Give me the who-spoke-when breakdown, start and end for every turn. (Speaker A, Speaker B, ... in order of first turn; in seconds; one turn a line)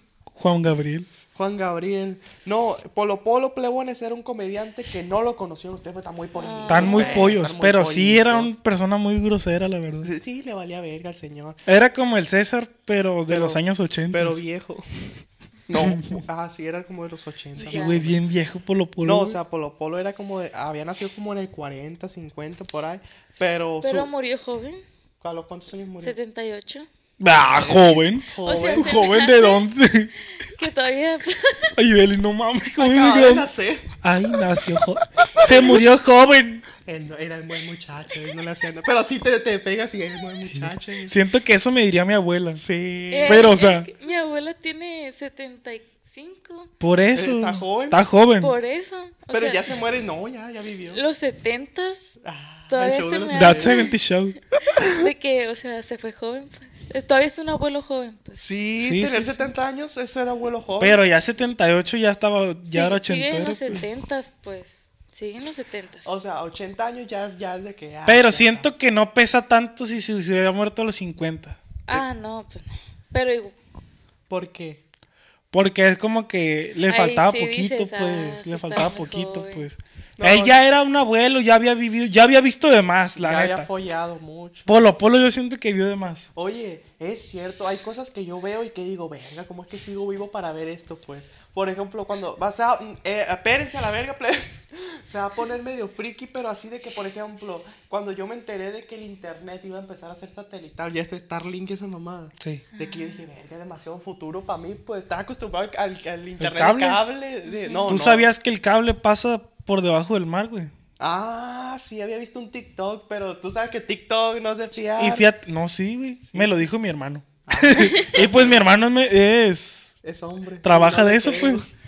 Speaker A: 0.3-1.1
Speaker B: 1.3-8.5
Speaker C: 6.4-7.4
Speaker A: 6.7-10.1
Speaker B: 10.0-11.6
Speaker A: 11.7-14.4
Speaker B: 13.3-14.8
Speaker B: 15.7-18.2
Speaker A: 15.8-16.2
Speaker C: 17.6-18.0
Speaker A: 17.6-19.4
Speaker B: 19.0-24.1
Speaker C: 23.8-24.8
Speaker B: 25.2-26.1
Speaker C: 26.0-26.9
Speaker A: 27.2-30.1
Speaker B: 27.3-29.1
Speaker C: 28.3-29.7
Speaker C: 30.4-31.8
Speaker A: 31.8-33.5
Speaker B: 32.8-33.9
Speaker A: 34.0-36.6
Speaker B: 35.3-35.8
Speaker B: 36.8-41.2
Speaker A: 40.5-42.6
Speaker B: 42.6-43.5
Speaker C: 43.1-46.7
Speaker A: 43.3-43.9
Speaker A: 46.8-48.5
Speaker B: 47.1-48.0
Speaker C: 48.4-49.8
Speaker B: 49.3-51.0
Speaker C: 50.9-52.2
Speaker B: 52.2-53.8
Speaker C: 52.7-53.9
Speaker A: 53.3-54.4
Speaker B: 54.7-55.1
Speaker C: 54.8-58.4
Speaker B: 58.4-61.0
Speaker A: 58.8-59.4
Speaker A: 60.8-63.9
Speaker C: 62.7-66.2
Speaker B: 66.0-68.7
Speaker A: 68.1-71.6
Speaker C: 71.9-73.5
Speaker B: 74.3-74.8
Speaker A: 75.5-83.7
Speaker C: 76.9-79.7
Speaker B: 80.2-80.6
Speaker B: 83.2-84.8
Speaker A: 84.7-86.3
Speaker B: 86.3-108.3
Speaker C: 102.8-103.2
Speaker A: 106.4-107.0
Speaker C: 107.5-107.9
Speaker A: 107.9-110.7
Speaker B: 111.0-115.3
Speaker A: 115.0-120.0
Speaker B: 116.3-116.6
Speaker B: 117.5-118.7
Speaker B: 120.0-121.7
Speaker A: 120.6-121.6